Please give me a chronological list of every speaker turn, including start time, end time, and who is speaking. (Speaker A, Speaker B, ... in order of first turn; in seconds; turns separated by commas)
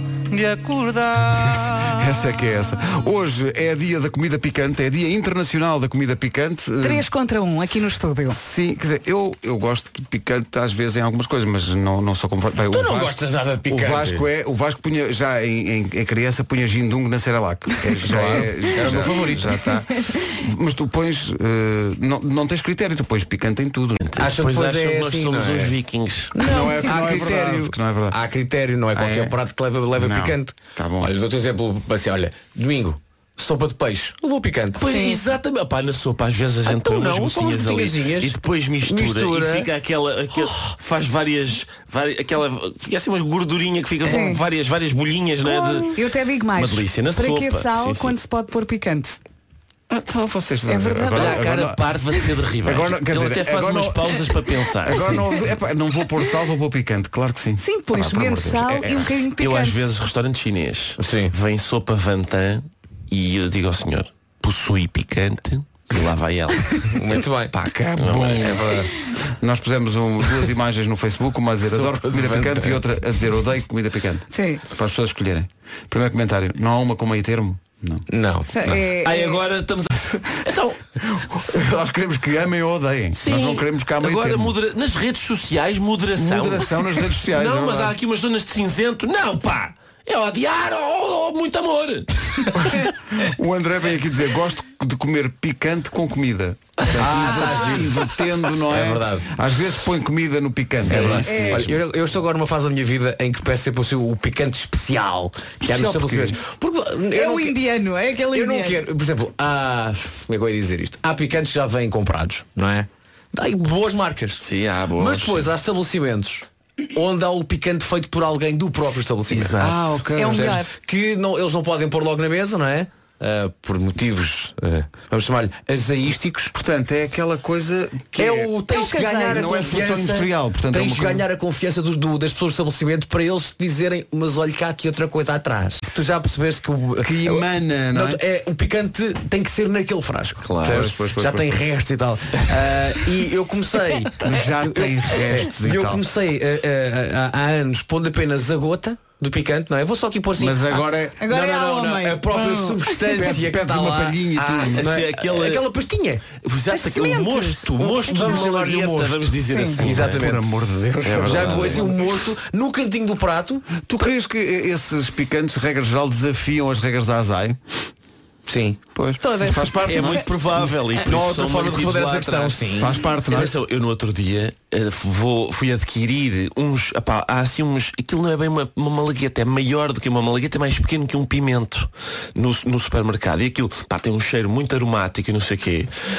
Speaker A: 0.3-1.5, Speaker B: 1.4-7.1, Speaker C: 6.8-8.4, Speaker B: 8.3-24.0, Speaker D: 12.7-14.2, Speaker D: 18.0-19.6, Speaker A: 24.0-26.3, Speaker D: 24.2-25.8, Speaker C: 26.4-26.9, Speaker D: 26.4-34.9, Speaker B: 26.4-28.2, Speaker B: 28.9-29.4, Speaker B: 30.0-31.1, Speaker A: 34.8-46.0, Speaker C: 34.9-35.2, Speaker D: 36.6-39.7, Speaker C: 44.0-44.4, Speaker C: 45.4-49.2, Speaker A: 46.5-48.1, Speaker B: 49.9-51.8, Speaker C: 50.7-51.4, Speaker A: 51.1-55.3, Speaker B: 52.6-54.2, Speaker B: 54.9-59.1, Speaker C: 57.6-59.8, Speaker A: 59.4-67.2, Speaker D: 61.0-61.3, Speaker D: 66.9-67.5, Speaker B: 67.5-78.0, Speaker A: 67.9-68.9, Speaker D: 71.6-72.8, Speaker C: 74.3-74.6, Speaker D: 78.1-78.5, Speaker C: 78.5-79.4, Speaker A: 79.0-80.8, Speaker B: 81.2-84.6, Speaker A: 83.2-92.5, Speaker B: 86.2-88.0, Speaker B: 92.5-101.8, Speaker D: 96.9-99.3, Speaker D: 100.8-107.6, Speaker C: 101.2-101.7, Speaker B: 105.6-106.4, Speaker C: 107.1-108.8, Speaker D: 108.3-114.4, Speaker A: 114.4-115.5, Speaker D: 115.0-116.4, Speaker D: 117.0-119.8, Speaker A: 119.3-120.0, Speaker B: 119.6-120.6, Speaker C: 120.2-120.8, Speaker D: 120.3-126.5, Speaker B: 126.5-128.5, Speaker D: 128.2-156.2, Speaker C: 128.7-129.6, Speaker B: 129.3-131.2, Speaker B: 137.0-138.2, Speaker A: 140.4-140.8, Speaker B: 140.6-141.5, Speaker B: 144.2-146.0, Speaker B: 150.4-151.2, Speaker C: 151.2-153.1, Speaker B: 153.1-154.9, Speaker A: 154.7-155.6, Speaker A: 156.4-160.3, Speaker C: 156.7-158.5, Speaker D: 157.8-160.4, Speaker C: 159.5-159.8, Speaker B: 159.9-161.9, Speaker A: 161.0-162.0, Speaker D: 161.1-163.7, Speaker B: 163.8-167.6, Speaker D: 168.5-168.8, Speaker B: 168.9-170.3, Speaker C: 169.2-169.6, Speaker A: 169.8-172.7, Speaker D: 171.0-173.0, Speaker B: 172.8-173.5, Speaker A: 173.3-185.9